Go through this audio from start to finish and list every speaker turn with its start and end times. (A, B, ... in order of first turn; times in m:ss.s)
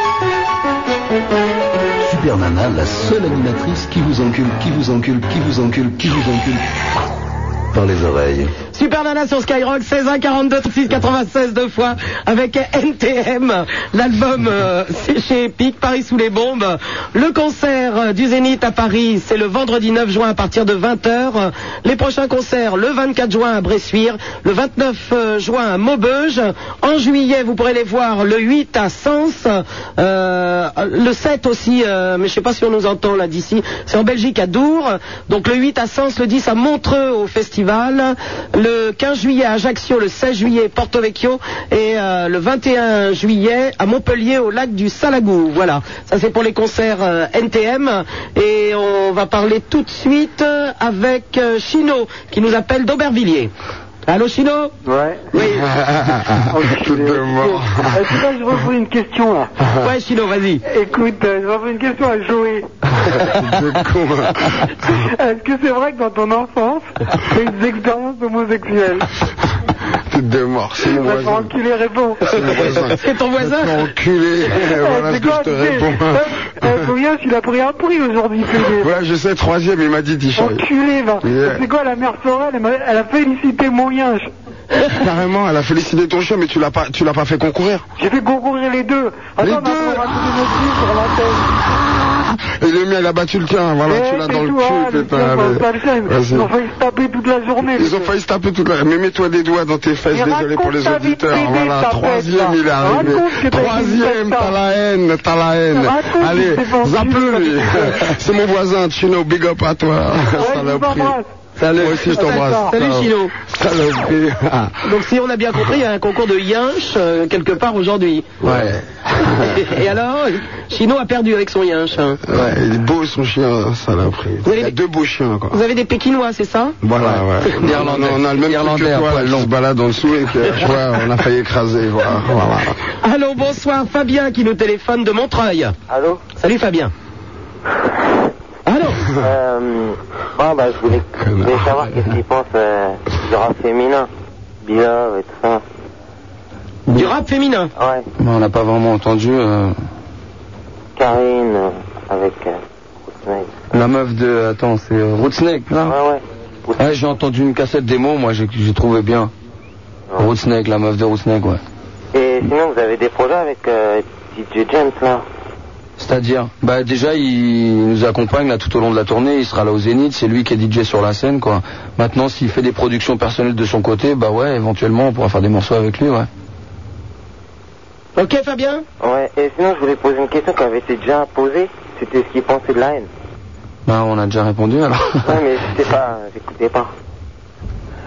0:02.0-0:06.6 A
0:07.7-0:08.5 A
0:08.7-0:53.5 B
0:54.0-0:54.7 B
0:54.9-0:55.2 C
0:55.3-0:55.6 B
0:55.3-0:58.0 D
0:56.5-0:59.5 C
0:59.8-1:00.6 B
1:00.7-1:02.7 C
1:03.0-1:05.0 D
1:04.9-1:09.1 C
1:10.1-1:11.5 D
1:10.8-1:12.2 C
1:12.2-1:16.8 D
1:12.4-1:13.8 B
1:14.7-1:18.9 C
1:18.8-1:20.6 D
1:20.4-1:24.3 C
1:21.2-1:21.6 D
1:24.9-1:27.8 D
1:28.0-1:31.5 C
1:29.4-1:30.2 D
1:32.1-1:36.5 D
1:33.9-1:38.1 C
1:37.7-1:51.1 D
1:40.1-1:44.5 C
1:45.7-1:48.0 C
1:50.3-1:51.3 C
1:51.6-1:53.3 B
1:51.7-1:54.8 D
1:52.1-1:52.7 C
1:54.8-1:58.3 B
1:58.4-1:59.6 D
1:58.4-1:58.8 E
1:59.4-2:02.2 B
2:02.2-2:05.6 D
2:04.4-2:04.7 B
2:05.5-2:06.8 B
2:06.8-2:12.8 D
2:07.0-2:09.5 E
2:13.0-2:15.7 B
2:15.9-2:16.2 F
2:16.4-2:16.9 B
2:18.6-2:19.0 B
2:19.2-2:24.1 F
2:21.1-2:22.0 D
2:24.6-2:25.6 F
2:26.9-2:27.1 E
2:26.9-2:27.7 B
2:27.8-2:28.0 F
2:28.2-2:29.7 E
2:31.0-2:32.6 F
2:33.1-2:33.5 F
2:33.7-2:36.0 E
2:35.8-2:36.7 F
2:36.8-2:39.3 E
2:40.2-2:41.6 E
2:42.1-2:45.2 F
2:46.0-2:56.3 E
2:58.2-2:58.8 B
2:59.0-3:03.1 F
3:03.8-3:05.4 E
3:05.2-3:06.9 F